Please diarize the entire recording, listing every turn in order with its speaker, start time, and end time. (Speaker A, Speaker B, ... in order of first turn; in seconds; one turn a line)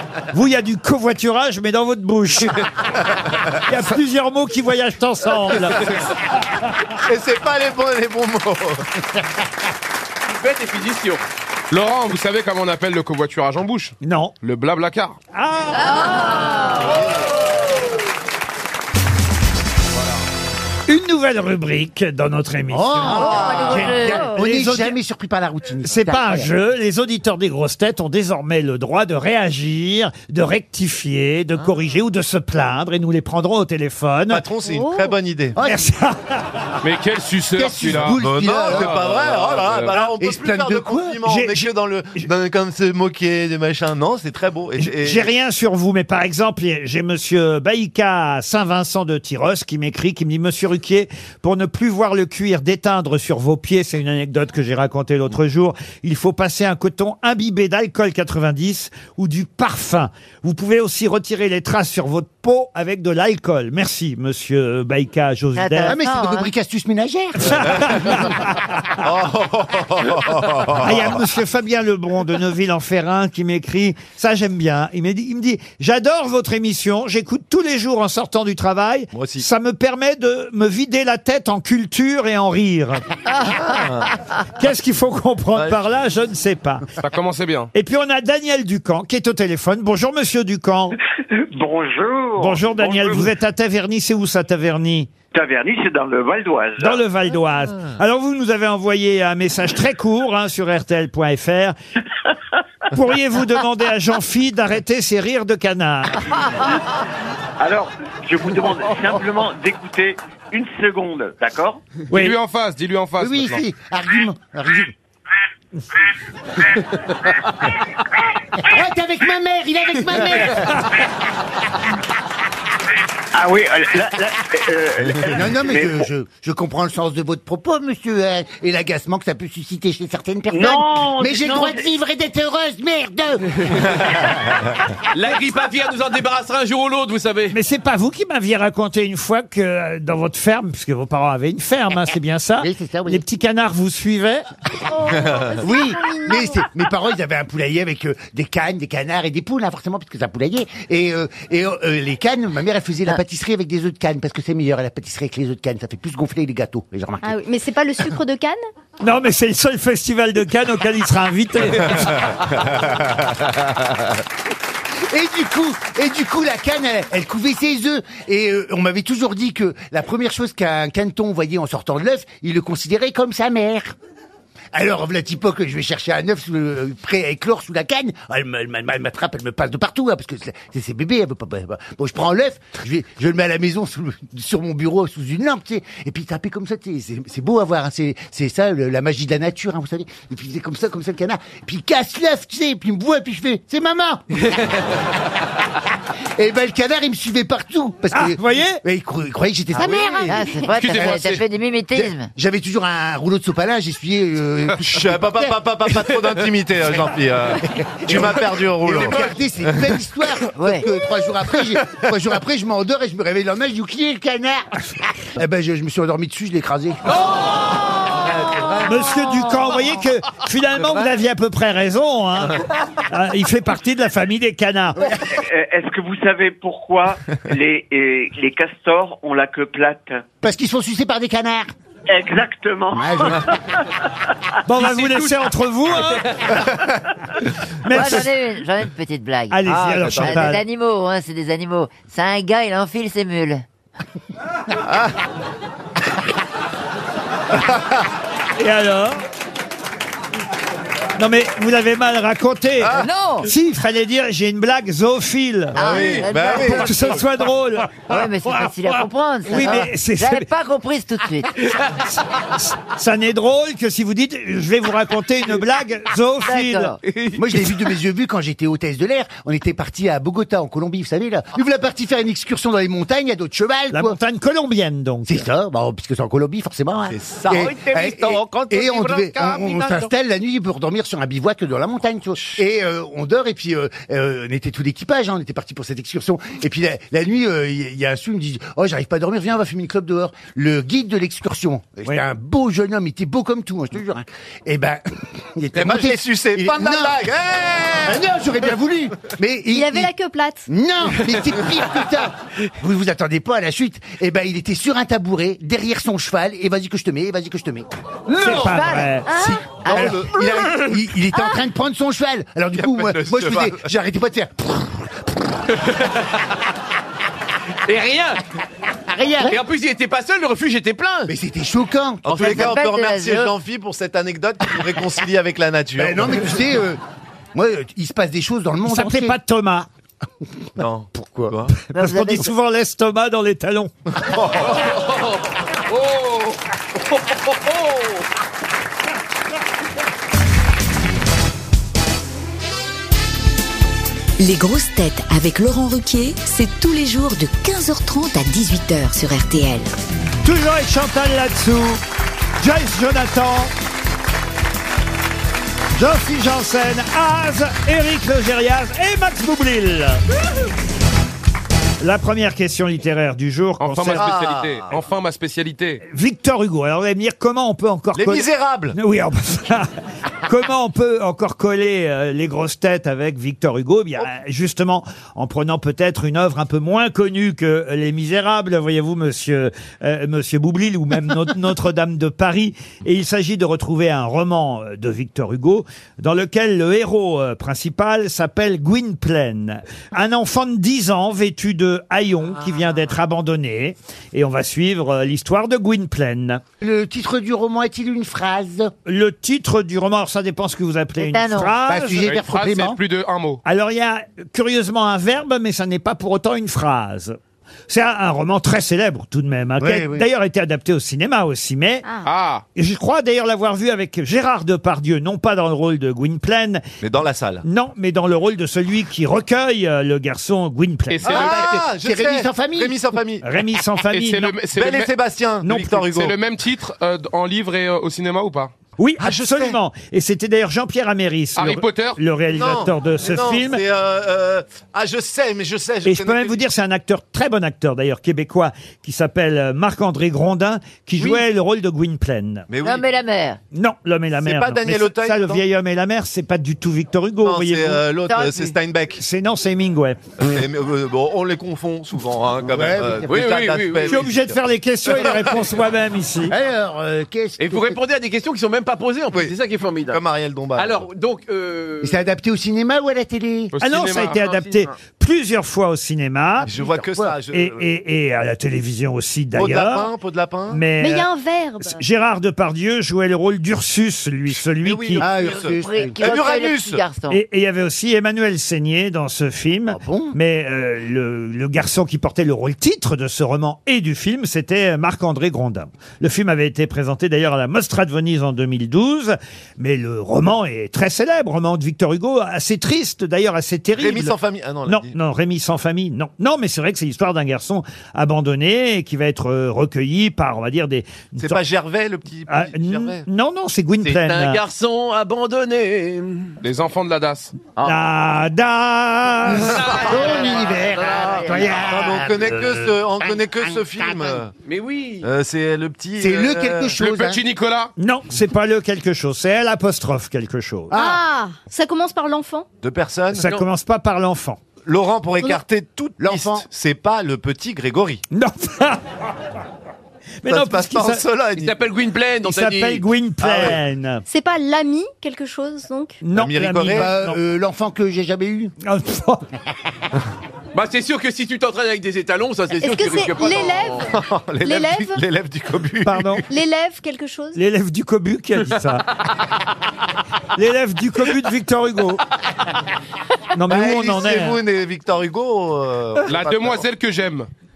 Speaker A: 0.3-2.7
Speaker A: 3.6-5.9
Speaker B: 7.0-8.9
Speaker C: 10.3-11.2
Speaker D: 11.7-15.2
Speaker A: 14.0-14.3
Speaker A: 15.3-16.6
Speaker A: 20.9-25.0
Speaker E: 22.7-26.5
Speaker F: 23.0-24.3
Speaker G: 23.1-24.2
Speaker A: 25.8-34.4
Speaker B: 34.3-35.6
Speaker G: 34.6-35.1
Speaker E: 35.5-35.9
Speaker A: 35.6-36.6
Speaker D: 36.8-39.6
Speaker E: 37.5-41.2
Speaker B: 38.1-45.3
Speaker A: 41.2-42.2
Speaker A: 44.8-66.0
Speaker F: 65.5-66.5
Speaker E: 65.8-68.2
Speaker A: 67.4-69.0
Speaker B: 67.4-68.3
Speaker B: 69.0-71.2
Speaker A: 70.8-83.1
Speaker B: 79.1-79.5
Speaker B: 83.4-84.2
Speaker A: 84.6-86.9
Speaker B: 85.5-86.0
Speaker D: 87.0-87.7
Speaker A: 87.7-91.0
Speaker H: 91.3-93.3
Speaker A: 92.4-95.1
Speaker H: 95.3-97.0
Speaker A: 96.8-101.8
Speaker A: 102.9-106.2
Speaker H: 107.6-111.8
Speaker A: 112.1-112.4
Speaker D: 112.1-113.6
Speaker E: 113.2-114.9
Speaker E: 118.6-120.8
Speaker H: 123.3-126.1
Speaker E: 125.3-133.6
Speaker H: 130.5-131.8
Speaker C: 135.1-137.5
Speaker A: 137.5-144.5
Speaker E: 142.6-143.2
Speaker G: 145.0-146.5
Speaker B: 145.1-145.5
Speaker E: 145.6-157.3
Speaker G: 157.2-158.6
Speaker A: 159.0-162.3
Speaker E: 165.1-173.9
Speaker E: 174.7-194.5
Speaker E: 196.4-201.2
Speaker A: 198.1-198.8
Speaker B: 199.8-200.2
Speaker F: 199.9-202.3
Speaker D: 200.7-201.4
Speaker E: 201.9-206.2
Speaker B: 204.8-209.9
Speaker E: 207.6-214.8
Speaker F: 210.5-210.9
Speaker E: 215.3-217.1
Speaker B: 218.2-218.9
Speaker A: 218.8-225.1
Speaker E: 225.0-225.3
Speaker H: 225.2-230.2
Speaker E: 230.4-231.7
Speaker H: 232.1-233.8
Speaker E: 232.9-233.5
Speaker A: 234.7-236.3
Speaker C: 234.8-235.3
Speaker C: 236.2-236.5
Speaker A: 237.8-238.3
Speaker F: 237.9-239.6
Speaker A: 239.5-240.6
Speaker B: 239.7-240.6
Speaker F: 240.1-243.7
Speaker B: 244.8-245.1
Speaker A: 248.6-249.2
Speaker A: 251.2-256.1
Speaker F: 252.9-253.5
Speaker B: 255.8-257.1
Speaker F: 255.8-257.2
Speaker A: 256.6-258.2
Speaker F: 258.0-261.7
Speaker A: 259.5-260.5
Speaker A: 262.6-267.0
Speaker F: 266.4-267.0
Speaker E: 267.3-274.2
Speaker A: 273.9-275.5
Speaker E: 275.2-297.3
Speaker B: 277.1-277.7
Speaker C: 277.5-280.1
Speaker B: 295.7-298.2
Speaker E: 298.0-300.1
Speaker G: 299.7-300.7
Speaker E: 300.7-307.9
Speaker A: 308.4-310.1
Speaker F: 308.4-309.1
Speaker G: 309.3-309.6
Speaker E: 309.4-315.2
Speaker F: 309.9-310.2
Speaker B: 309.9-310.3
Speaker B: 312.8-313.9
Speaker C: 315.8-316.4
Speaker C: 317.9-318.4
Speaker E: 319.1-319.6
Speaker C: 319.4-321.3
Speaker E: 321.3-322.8
Speaker B: 322.2-326.6
Speaker F: 322.3-323.6
Speaker E: 326.0-327.0
Speaker E: 327.5-329.4
Speaker A: 328.9-329.9
Speaker B: 330.8-331.7
Speaker E: 331.1-331.6
Speaker F: 331.9-332.5
Speaker A: 331.9-333.9
Speaker B: 334.2-334.8
Speaker C: 334.6-336.6
Speaker C: 337.1-338.2
Speaker I: 344.4-349.9
Speaker A: 350.4-352.0
Speaker A: 352.6-353.7
Speaker A: 355.9-360.2
Speaker A: 362.0-364.3
Speaker D: 363.8-366.0
Speaker B: 364.1-365.0
Speaker A: 366.1-369.9
Speaker B: 368.1-369.0
Speaker A: 370.4-396.6
Speaker E: 396.8-398.9
Speaker A: 399.0-402.3
Speaker F: 401.2-401.8
Speaker E: 401.8-403.0
Speaker D: 402.1-403.6
Speaker A: 403.6-407.4
Speaker A: 407.9-412.0
Speaker E: 409.8-410.3
Speaker D: 412.2-412.6
Speaker A: 412.8-416.8
Speaker B: 417.0-417.6
Speaker A: 417.6-421.5
Speaker D: 421.1-421.8
Speaker B: 421.2-423.4
Speaker E: 421.2-423.0
Speaker A: 423.4-424.6
Speaker D: 424.1-425.2
Speaker B: 424.8-426.4
Speaker A: 425.6-426.0
Speaker D: 426.0-428.7
Speaker A: 429.0-433.8
Speaker B: 429.2-429.8
Speaker D: 431.6-432.2
Speaker B: 432.5-436.6
Speaker A: 436.1-442.7
Speaker B: 442.7-443.1
Speaker F: 442.8-443.6
Speaker A: 443.7-448.0
Speaker B: 444.4-445.6
Speaker B: 447.4-449.2
Speaker F: 448.2-448.8
Speaker A: 449.2-450.2
Speaker B: 450.4-454.5
Speaker E: 452.7-453.5
Speaker C: 453.2-454.3
Speaker A: 454.1-456.5
Speaker B: 455.1-455.5
Speaker E: 456.5-458.0
Speaker C: 457.6-460.2
Speaker B: 460.1-461.1
Speaker C: 460.8-462.2
Speaker E: 462.0-463.7
Speaker D: 463.7-464.4
Speaker A: 463.8-466.7
Speaker C: 464.4-464.9
Speaker B: 466.6-467.8
Speaker E: 466.7-467.4
Speaker A: 467.5-470.1
Speaker B: 469.5-470.8
Speaker A: 470.7-471.3
Speaker G: 471.0-472.0
Speaker A: 471.9-475.3
Speaker B: 474.8-477.0
Speaker E: 475.2-476.4
Speaker F: 475.4-477.4
Speaker A: 477.3-494.4
Speaker E: 479.9-480.3
Speaker B: 494.0-495.1
Speaker A: 494.9-501.5
Speaker B: 501.4-503.2
Speaker A: 502.5-504.6
Speaker C: 504.0-506.6
Speaker D: 506.6-507.5
Speaker A: 507.8-510.0
Speaker E: 509.5-514.4
Speaker C: 509.5-511.8
Speaker F: 510.3-512.5
Speaker B: 511.7-514.5
Speaker C: 514.6-515.3
Speaker B: 515.2-517.0
Speaker E: 516.2-517.4
Speaker D: 517.0-517.9
Speaker A: 518.0-521.0
Speaker E: 520.9-521.2
Speaker G: 520.9-522.7
Speaker B: 522.8-523.5
Speaker A: 523.3-524.6
Speaker B: 524.8-528.2
Speaker E: 526.2-526.6
Speaker A: 528.3-529.0
Speaker A: 530.4-531.2
Speaker B: 530.5-531.8
Speaker C: 531.5-533.0
Speaker A: 532.4-534.2
Speaker B: 533.4-533.8
Speaker G: 534.3-536.2
Speaker A: 536.2-537.4
Speaker B: 536.3-537.1
Speaker E: 536.9-538.7
Speaker A: 538.8-539.5
Speaker C: 540.7-544.1
Speaker G: 542.8-544.1
Speaker B: 544.1-546.4
Speaker G: 544.6-545.2
Speaker A: 546.0-546.4
Speaker G: 546.5-547.6
Speaker A: 547.5-549.1
Speaker A: 550.5-552.2
Speaker A: 553.5-554.6
Speaker B: 553.7-556.9
Speaker D: 556.2-557.5